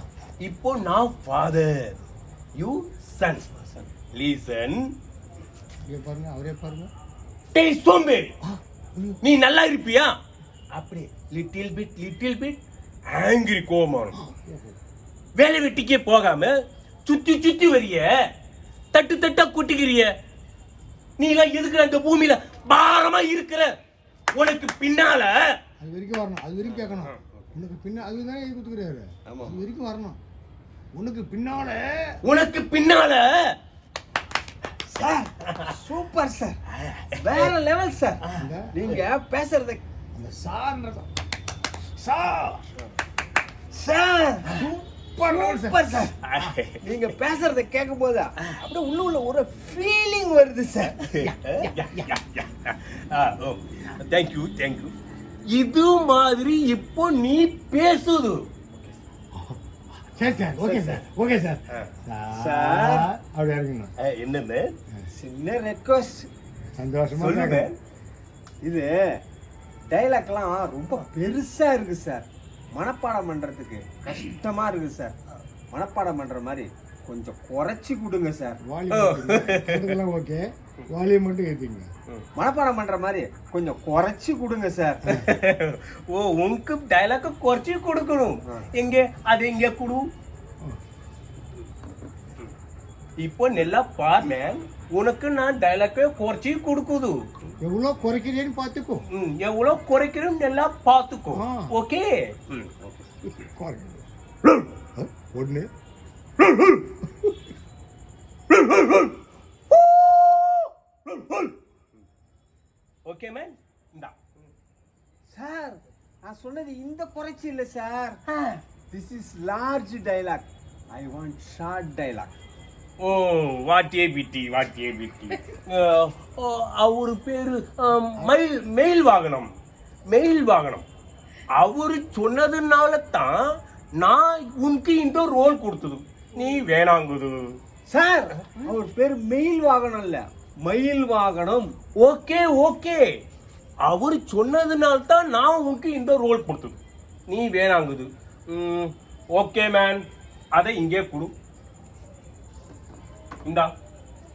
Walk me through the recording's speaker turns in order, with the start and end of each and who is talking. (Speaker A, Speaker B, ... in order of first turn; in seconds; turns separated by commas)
Speaker A: 0.4-4.9, Speaker B: 5.9-6.9, Speaker A: 7.5-8.3, Speaker B: 8.4-9.2, Speaker A: 9.2-10.2, Speaker A: 10.7-14.2, Speaker B: 14.1-14.8, Speaker A: 15.4-18.2, Speaker A: 18.9-20.1, Speaker A: 21.2-23.7, Speaker A: 24.3-25.6, Speaker B: 25.8-30.2, Speaker C: 26.6-27.5, Speaker C: 29.3-29.6, Speaker B: 30.9-32.2, Speaker A: 32.2-33.5, Speaker C: 34.9-36.6, Speaker A: 35.4-35.7, Speaker A: 36.7-37.5, Speaker C: 37.1-39.8, Speaker B: 38.4-39.0, Speaker B: 40.1-41.1, Speaker B: 42.0-42.7, Speaker C: 43.7-46.2, Speaker B: 44.5-45.8, Speaker A: 46.2-46.8, Speaker C: 46.8-51.5, Speaker A: 51.5-54.9, Speaker B: 51.7-52.1, Speaker A: 55.5-58.5, Speaker B: 59.3-63.9, Speaker C: 60.5-61.1, Speaker C: 62.3-63.1, Speaker A: 64.0-64.8, Speaker C: 65.1-66.3, Speaker B: 66.8-67.7, Speaker A: 67.2-67.7, Speaker C: 67.3-67.6, Speaker C: 68.6-69.2, Speaker C: 69.9-75.2, Speaker C: 75.7-78.6, Speaker B: 78.6-81.9, Speaker A: 78.9-79.9, Speaker C: 82.3-85.3, Speaker A: 85.0-90.0, Speaker A: 93.2-97.3, Speaker B: 97.6-99.0, Speaker A: 99.1-102.7, Speaker B: 101.3-101.8, Speaker C: 102.8-103.1, Speaker B: 103.3-105.7, Speaker B: 106.4-107.4, Speaker B: 108.5-109.0, Speaker A: 109.7-110.7, Speaker A: 113.0-114.4, Speaker C: 115.3-118.2, Speaker A: 118.3-118.6, Speaker C: 118.9-122.3, Speaker A: 123.0-129.5, Speaker A: 130.1-130.9, Speaker A: 131.5-137.6, Speaker C: 137.9-141.8, Speaker A: 142.0-143.2, Speaker A: 143.8-151.3, Speaker A: 153.4-153.7